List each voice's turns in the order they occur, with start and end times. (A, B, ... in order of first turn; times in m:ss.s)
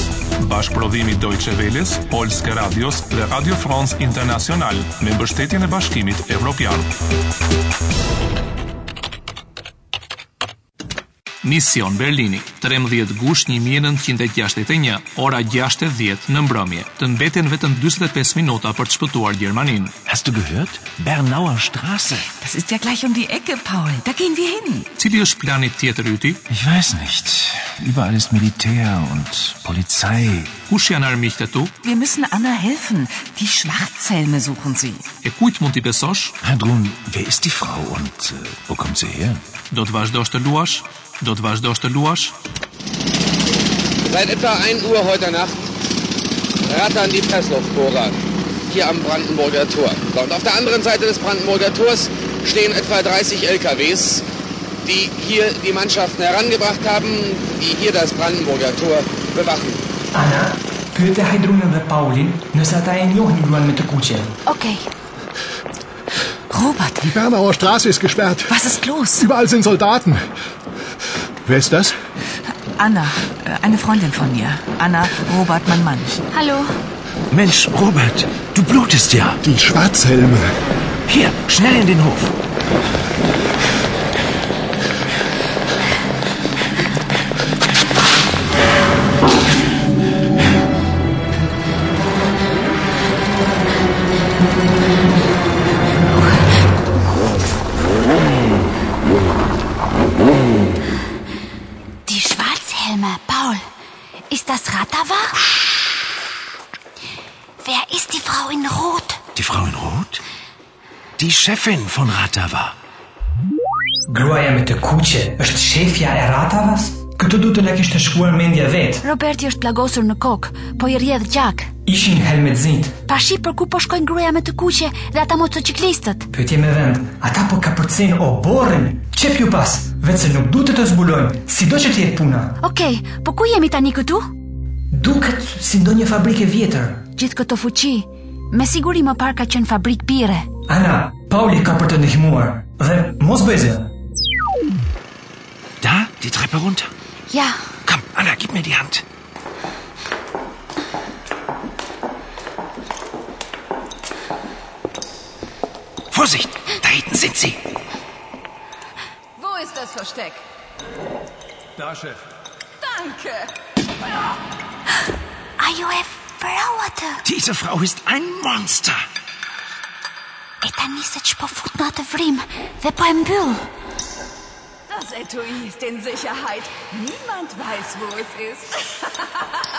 0:00.4-0:06.9 A
0:11.4-0:19.9 A
0:20.1-0:22.4 B
0:22.4-0:24.9 C
0:25.0-0:26.4 A
0:26.5-0:30.5 B
0:30.7-0:31.7 A
0:31.8-0:35.1 C
0:35.2-0:36.3 A
0:36.4-0:39.4 B
0:39.7-0:42.3 A
0:44.0-0:45.7 D
0:46.6-0:48.2 D
0:48.7-0:54.2 D
0:54.8-0:59.8 D
1:00.1-1:04.4 E
1:04.5-1:04.9 F
1:06.5-1:07.0 C
1:07.0-1:10.2 G
1:08.5-1:09.3 C
1:11.4-1:12.0 G
1:12.8-1:16.2 C
1:16.3-1:16.7 F
1:17.3-1:19.4 B
1:19.4-1:20.4 G
1:21.1-1:22.3 B
1:42.1-1:43.6 F
1:44.3-1:45.4 F
1:47.6-1:49.2 F
1:49.4-1:50.2 B
1:51.2-1:52.7 B
1:54.1-1:59.0 E
1:59.0-2:01.7 F
2:01.9-2:03.0 E
2:03.1-2:06.3 F
2:06.3-2:12.6 E
2:12.6-2:14.3 F
2:14.9-2:17.0 E
2:17.2-2:20.5 F
2:20.7-2:23.9 E
2:25.8-2:26.9 B
2:27.3-2:27.6 F
2:27.8-2:29.0 B
2:36.1-2:37.6 B
2:39.4-2:40.4 H
2:42.8-2:43.5 H
2:45.6-2:47.2 F
2:47.2-2:49.0 B
2:50.6-2:53.6 F
2:54.9-2:59.1 H